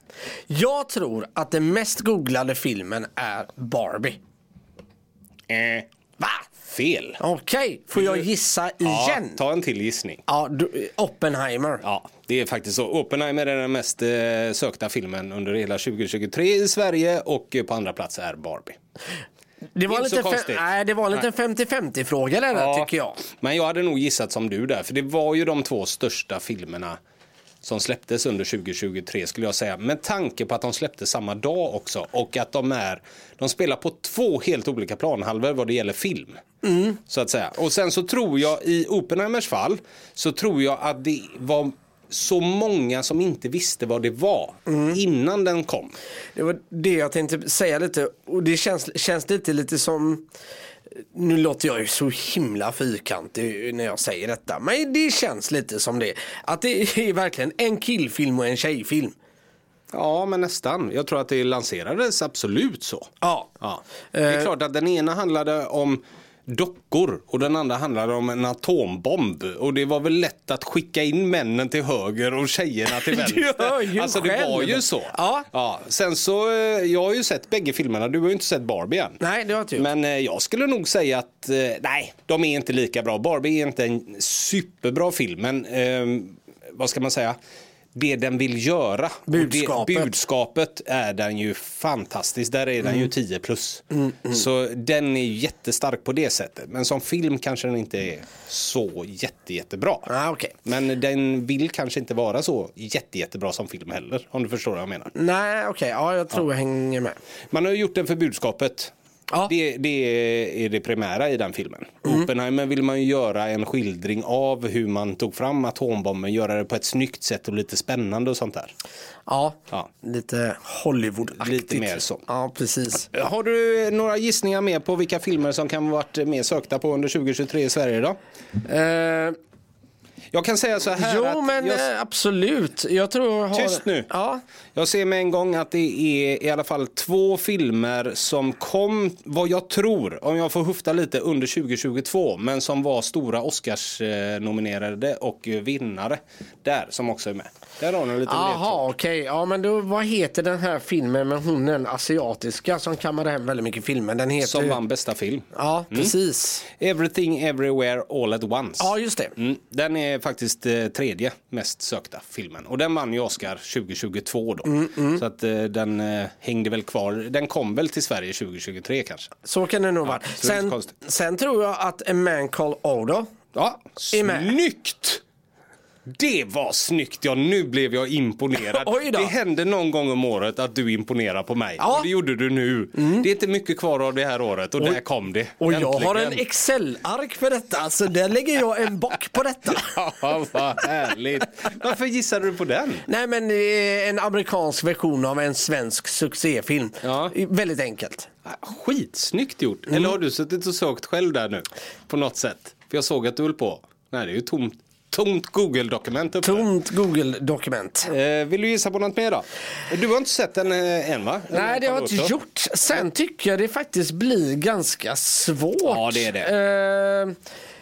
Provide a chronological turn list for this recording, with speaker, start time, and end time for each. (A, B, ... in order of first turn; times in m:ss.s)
0:00.5-0:04.2 A
0:05.5-0:05.9 B
0:06.7-0:07.2 B
0:07.2-0:09.4 A
0:08.0-0:08.3 B
0:08.8-0:10.2 B
0:10.3-0:11.8 A
0:11.8-0:18.8 B
0:19.8-0:23.2 A
0:19.9-0:20.7 B
0:22.5-0:27.0 B
0:27.6-0:36.4 B
0:36.6-0:37.0 A
0:37.0-0:46.0 B
0:44.7-0:45.0 A
0:46.4-0:50.3 A
0:51.0-0:59.2 A
0:59.9-1:03.1 B
1:03.2-1:03.5 A
1:03.6-1:19.2 B
1:04.1-1:04.5 A
1:12.9-1:15.5 A
1:19.2-1:19.9 A
1:19.8-1:27.4 B
1:27.9-1:40.1 B
1:29.3-1:30.2 A
1:33.9-1:34.4 A
1:40.1-1:40.6 A
1:40.6-1:45.1 B
1:45.2-1:47.2 A
1:47.5-1:48.9 B
1:49.5-1:58.7 B
1:59.3-2:03.1 A
2:01.4-2:02.2 B
2:03.0-2:08.2 B
2:08.6-2:09.4 A
2:10.3-2:11.8 B
2:11.0-2:14.4 A
2:13.5-2:14.1 B
2:14.8-2:28.9 B
2:28.3-2:34.8 A
2:34.4-2:36.1 B
2:35.6-2:36.6 A
2:36.6-2:49.3 B
2:38.8-2:39.4 A
2:44.7-2:45.2 A
2:49.4-2:53.3 A
2:50.0-2:50.9 B
2:53.5-2:55.2 B
2:54.1-2:54.5 A
2:56.1-3:06.4 B
2:58.6-2:59.3 A
3:01.8-3:02.1 A
3:03.0-3:03.3 A
3:05.6-3:09.9 A
3:09.7-3:13.0 B
3:13.1-3:18.3 A
3:17.0-3:17.4 B
3:18.4-3:26.7 B
3:26.4-3:28.1 A
3:28.0-3:32.4 B
3:31.5-3:37.4 A
3:35.8-3:36.5 B